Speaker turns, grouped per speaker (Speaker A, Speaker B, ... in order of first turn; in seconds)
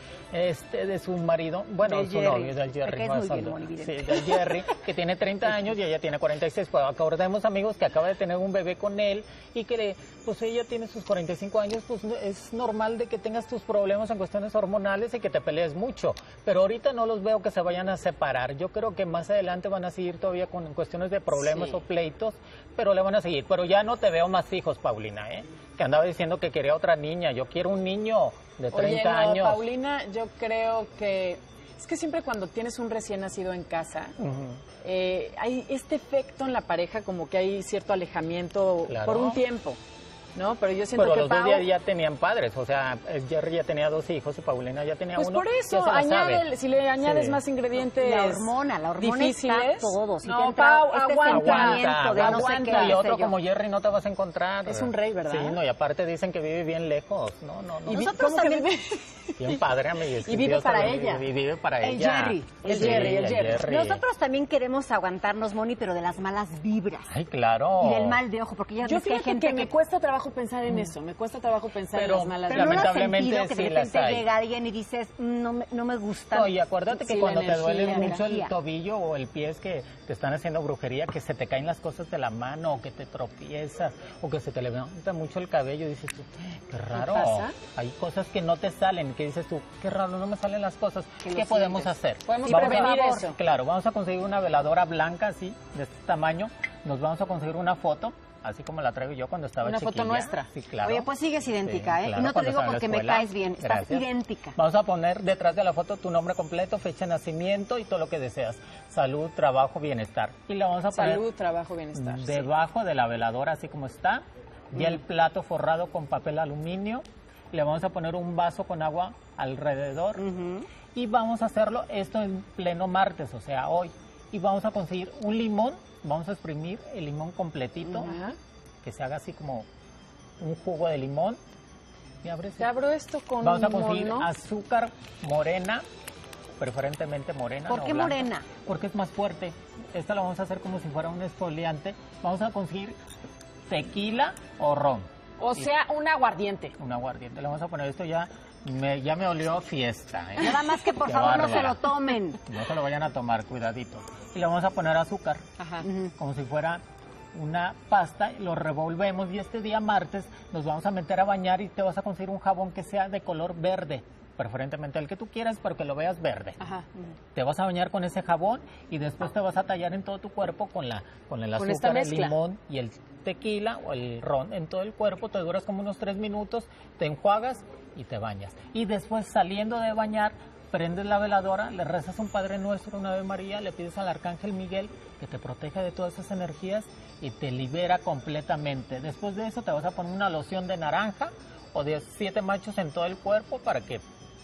Speaker A: 0.3-29.6, 34.2-34.6, 38.9-39.4, 40.9-46.5, 47.0-47.4, 51.3-58.1, 59.4-64.0, 67.1-68.2, 71.9-74.2, 76.3-101.1, 101.6-111.3, 111.9-120.2, 120.9-128.1, 128.8-129.7, 130.4-131.4, 132.2-132.7, 133.4-135.8, 136.6-142.9, 143.7-145.7, 146.8-151.9, 152.4-155.4, 156.2-156.8, 157.3-166.6, 167.3-194.0
Speaker B: 1.8-4.6, 21.4-21.8, 48.0-53.3, 57.9-58.7, 61.8-67.1, 67.8-69.7, 72.5-76.6, 77.7-78.5, 91.2-93.2, 100.8-104.6, 120.2-120.7, 137.7-138.5, 150.4-152.4, 155.8-156.1
Speaker C: 28.7-34.1, 34.8-39.8, 40.3-41.7, 45.1-53.1, 54.6-55.6, 57.9-59.6, 60.2-61.2, 62.6-63.7, 68.8-72.9, 77.0-78.2, 86.9-87.5, 92.3-93.4, 99.6-100.5, 110.9-112.5, 128.0-128.3, 132.6-134.3, 145.4-146.7, 155.6-155.8, 166.6-166.8, 171.6-172.3